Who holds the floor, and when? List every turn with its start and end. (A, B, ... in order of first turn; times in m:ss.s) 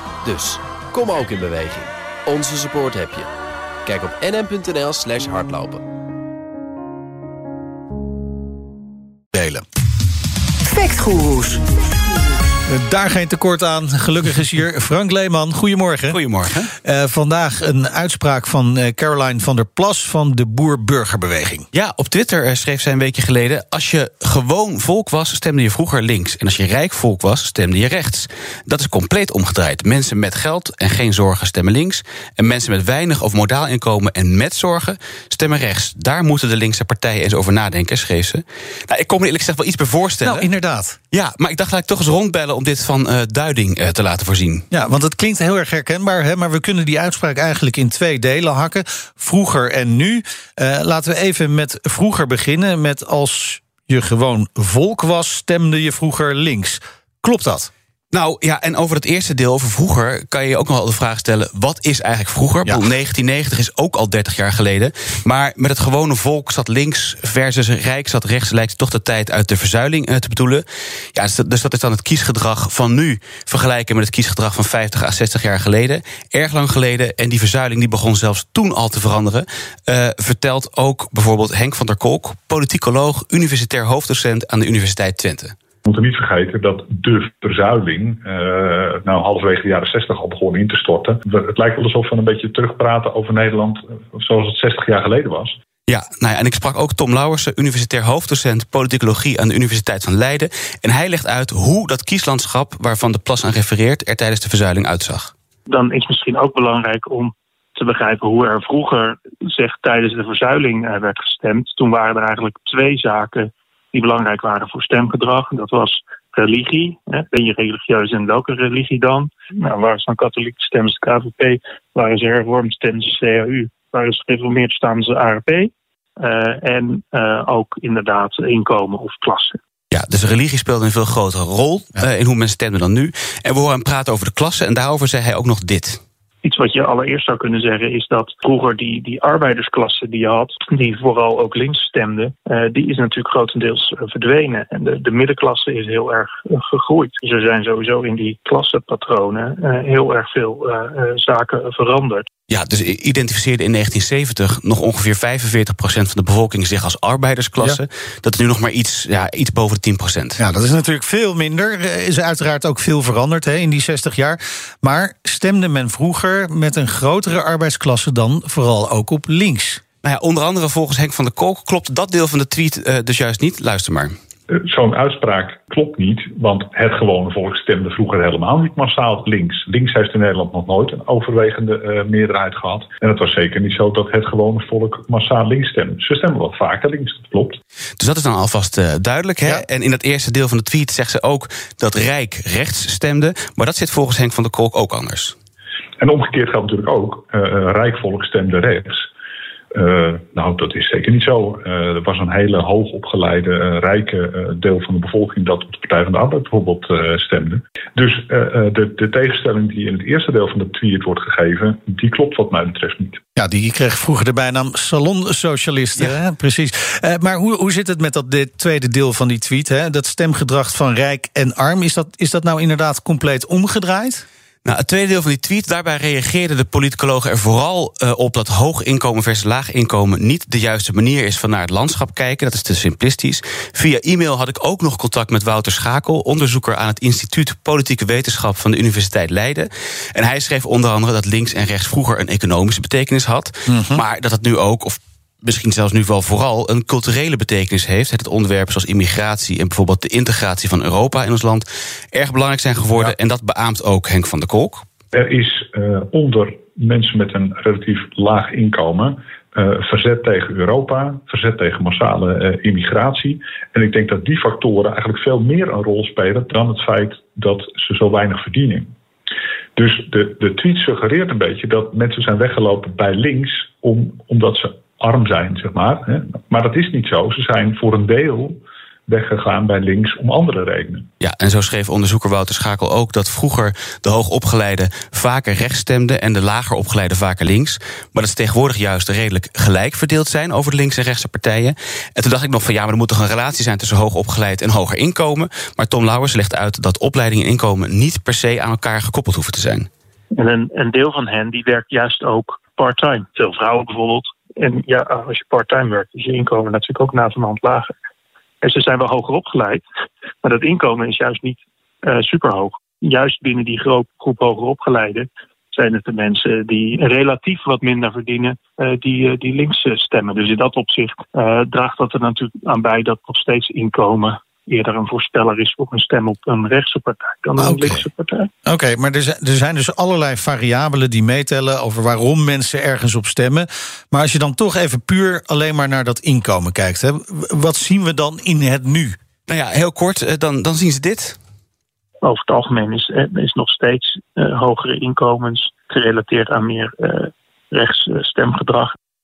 0:00.2-0:03.3 A
0:03.8-0:05.8 A
0:09.3-0:09.6 B
0:10.6-0:11.6 B
0:12.7-0:16.2 B
0:16.1-0:16.7 C
0:16.8-0:21.6 B
0:21.7-0:40.5 C
0:40.2-0:41.0 B
0:41.1-0:44.6 C
0:44.7-0:57.7 B
0:58.1-1:25.6 C
1:25.8-1:35.6 D
1:35.9-1:45.3 C
1:45.7-2:09.6 E
2:09.9-2:16.0 C
2:16.4-2:32.3 E
2:32.5-2:40.4 C
2:40.4-2:49.8 B
2:50.0-2:54.1 C
2:54.5-3:07.6 D
3:08.0-3:15.4 C
3:16.0-3:19.1 D
3:19.7-3:33.2 D
3:33.4-3:44.2 B
3:44.6-4:14.8 C
4:03.7-4:04.0 B
4:15.1-4:28.9 D
4:29.8-4:41.1 D
4:41.2-4:59.9 C
5:00.4-5:07.9 E
5:08.6-5:09.8 E
5:10.4-5:28.5 E
5:27.6-5:28.0 B
5:28.6-5:39.2 B
5:39.5-5:41.4 C
5:42.2-5:49.0 E